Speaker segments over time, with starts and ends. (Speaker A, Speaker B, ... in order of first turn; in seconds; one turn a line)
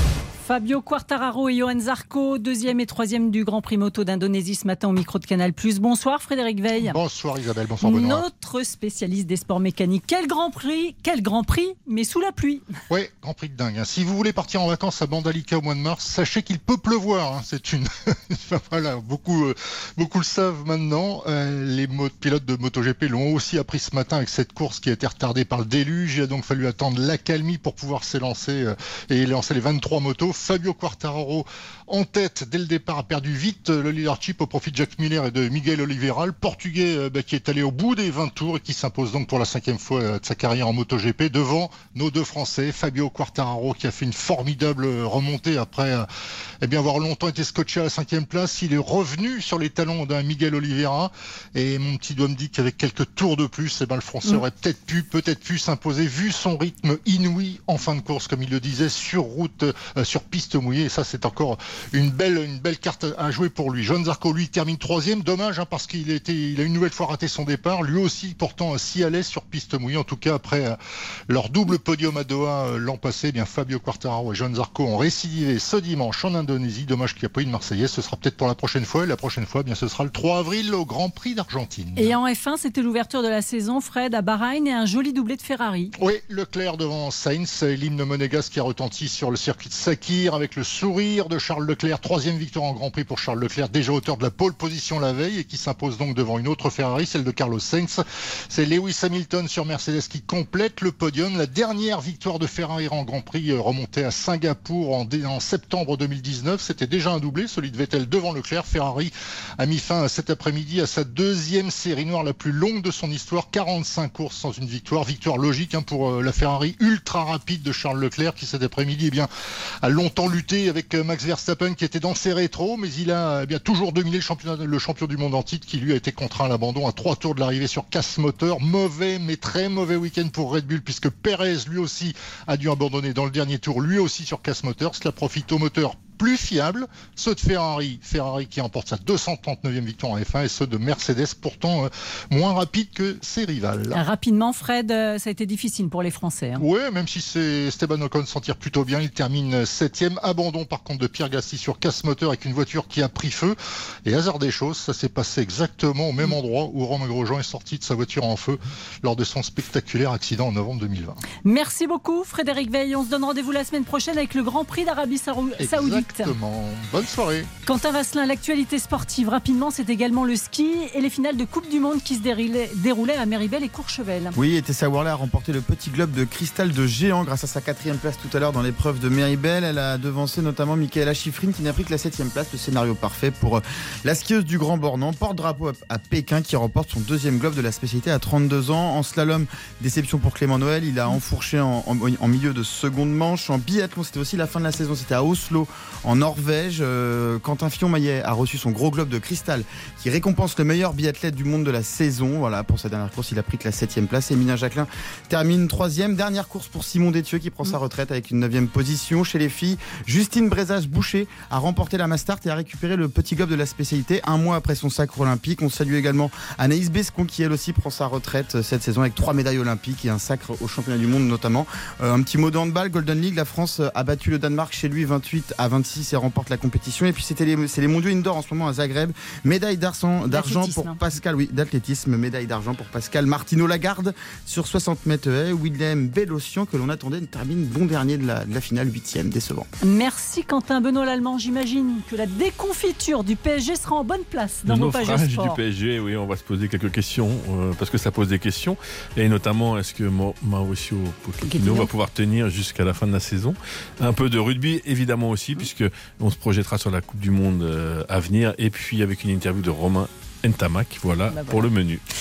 Speaker A: 0.4-7.0
Speaker B: 6.8-8.2
Speaker A: 7.8-12.6
Speaker B: 12.9-46.1
Speaker B: 46.6-70.8
Speaker B: 71.3-82.2
Speaker A: 82.0-86.0
Speaker B: 86.0-119.3
Speaker B: 119.8-144.0
Speaker A: 143.9-146.7
Speaker B: 146.6-161.2
Speaker A: 161.4-166.3
Speaker B: 165.6-167.5
Speaker A: 167.7-174.3
Speaker C: 174.4-239.7
Speaker A: 230.3-231.0
Speaker A: 239.8-245.6
Speaker D: 244.7-262.0
Speaker A: 251.5-251.9
Speaker A: 261.3-261.6